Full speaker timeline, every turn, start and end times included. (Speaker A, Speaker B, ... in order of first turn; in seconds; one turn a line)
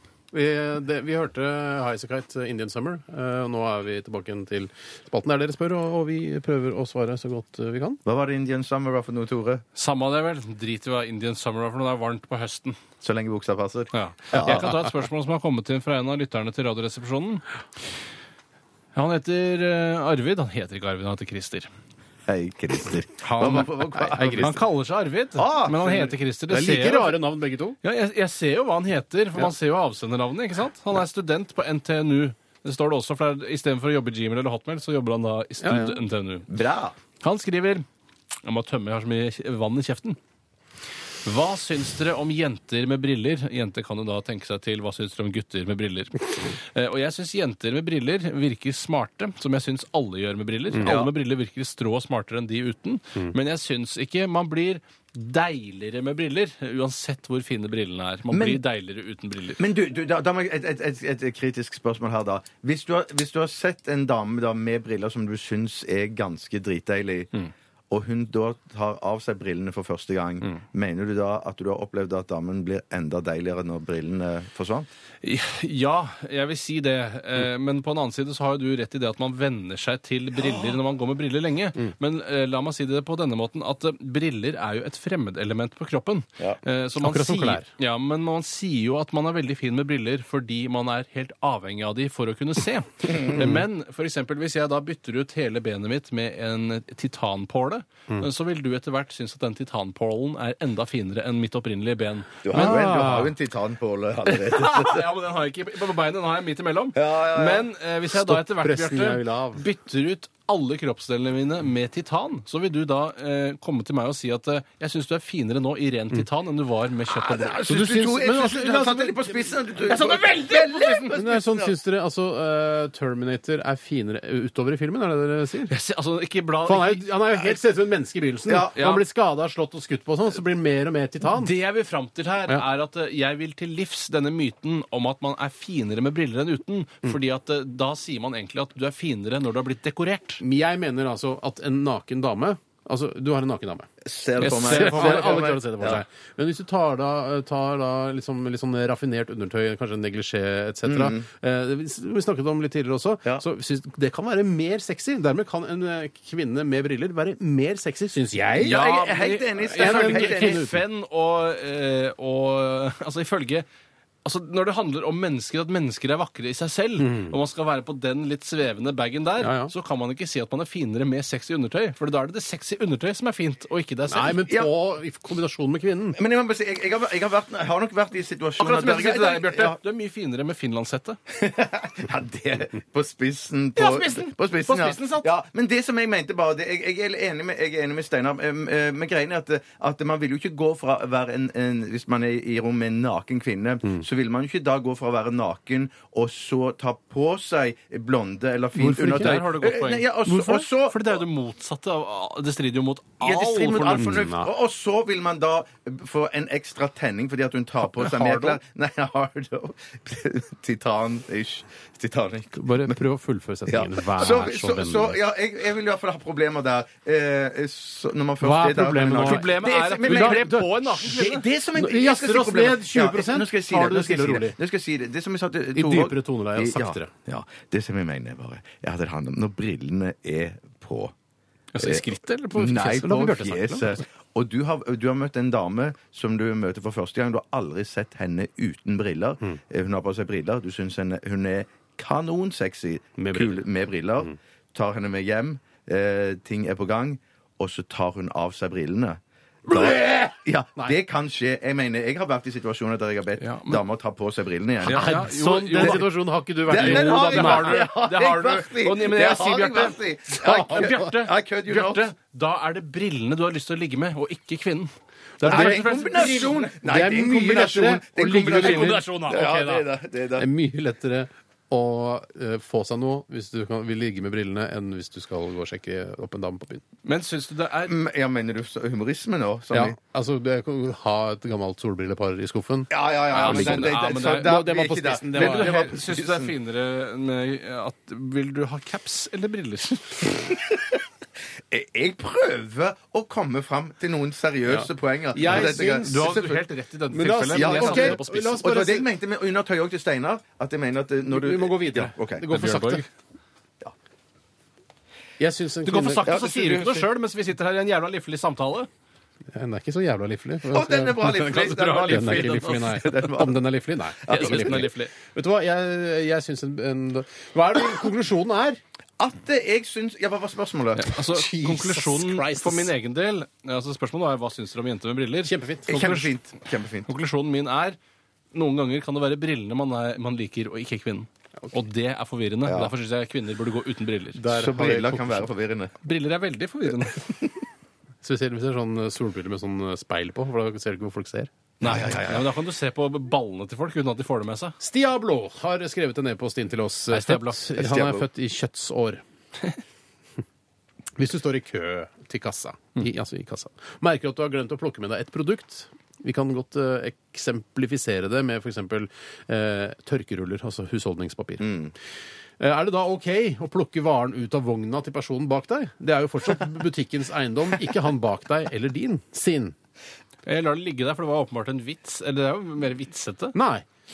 Speaker A: 0.3-8.0
Speaker B: 8.1-9.6
Speaker C: 9.8-12.8
Speaker B: 13.0-14.8
Speaker C: 13.9-17.4
Speaker C: 18.9-21.7
Speaker B: 22.3-24.6
Speaker C: 23.3-23.7
Speaker A: 23.4-24.6
Speaker C: 24.3-27.2
Speaker B: 25.4-26.1
Speaker A: 26.5-27.8
Speaker C: 27.8-36.5
Speaker A: 35.6-36.0
Speaker B: 36.5-37.0
Speaker C: 37.2-37.8
Speaker C: 38.4-40.2
Speaker C: 41.2-59.6
Speaker B: 50.8-51.1
Speaker B: 58.3-58.6
Speaker B: 59.6-67.3
Speaker B: 67.9-74.9
Speaker C: 75.2-103.0
Speaker A: 87.0-87.7
Speaker A: 93.4-93.6
Speaker B: 102.4-105.0
Speaker A: 102.5-103.3
Speaker C: 104.3-117.6
Speaker B: 107.0-107.7
Speaker A: 108.1-109.6
Speaker B: 117.1-121.7
Speaker A: 117.6-119.4
Speaker C: 119.8-121.2
Speaker A: 121.1-125.7
Speaker C: 125.7-127.5
Speaker A: 126.6-131.5
Speaker B: 128.5-128.7
Speaker C: 128.7-129.1
Speaker C: 131.2-140.4
Speaker A: 140.4-143.9
Speaker B: 144.0-146.0
Speaker C: 144.4-145.5
Speaker A: 144.6-158.8
Speaker B: 150.9-151.2
Speaker B: 158.5-160.6
Speaker C: 158.6-163.7
Speaker A: 159.6-160.8
Speaker C: 164.2-174.4
Speaker A: 167.0-167.4
Speaker A: 169.4-169.7
Speaker A: 174.1-176.2
Speaker B: 176.1-179.8
Speaker C: 178.6-181.2
Speaker B: 181.3-201.2
Speaker C: 183.8-185.3
Speaker A: 198.8-199.4
Speaker C: 199.0-204.2
Speaker B: 203.2-212.9
Speaker A: 203.9-204.5
Speaker A: 208.1-208.6
Speaker A: 212.5-215.2
Speaker B: 213.7-231.1
Speaker A: 218.4-220.7
Speaker C: 219.2-221.4
Speaker A: 221.8-224.6
Speaker A: 225.7-227.1
Speaker C: 231.7-233.3
Speaker B: 231.8-255.2
Speaker A: 232.7-234.0
Speaker A: 243.2-243.6
Speaker A: 249.7-250.9
Speaker C: 253.4-253.8
Speaker C: 254.8-256.1
Speaker A: 254.9-257.9
Speaker B: 255.7-256.1
Speaker B: 256.7-262.1
Speaker C: 256.7-266.7
Speaker A: 260.4-261.1
Speaker A: 265.4-269.1
Speaker B: 265.4-270.5
Speaker C: 268.4-269.9
Speaker A: 270.4-276.8
Speaker C: 277.1-278.0
Speaker B: 277.8-280.0
Speaker A: 279.7-285.9
Speaker B: 282.9-286.6
Speaker C: 283.3-284.6
Speaker C: 285.3-290.5
Speaker B: 290.5-291.0
Speaker B: 291.7-296.6
Speaker A: 294.7-296.4
Speaker C: 295.4-298.6
Speaker A: 297.1-299.1
Speaker B: 297.5-302.4
Speaker A: 301.3-303.1
Speaker C: 302.5-303.1
Speaker A: 305.4-306.4
Speaker C: 305.8-308.9
Speaker B: 306.2-307.1
Speaker A: 309.5-318.8
Speaker B: 310.7-313.6
Speaker C: 311.3-313.0
Speaker B: 314.2-314.9
Speaker C: 314.3-315.1
Speaker B: 319.2-321.1
Speaker C: 321.0-326.3
Speaker A: 321.3-322.9
Speaker A: 325.4-326.2
Speaker B: 325.9-327.1
Speaker C: 327.1-328.0
Speaker C: 328.5-334.4
Speaker B: 332.6-332.9
Speaker A: 334.4-335.5
Speaker B: 334.4-335.9
Speaker C: 336.0-337.3
Speaker A: 338.2-341.5
Speaker C: 341.8-344.8
Speaker B: 341.8-342.5
Speaker A: 344.8-349.2
Speaker C: 347.1-347.6
Speaker B: 347.8-348.3
Speaker A: 351.2-361.7
Speaker B: 361.6-361.9
Speaker A: 362.6-369.7
Speaker C: 370.4-373.6
Speaker A: 373.5-373.8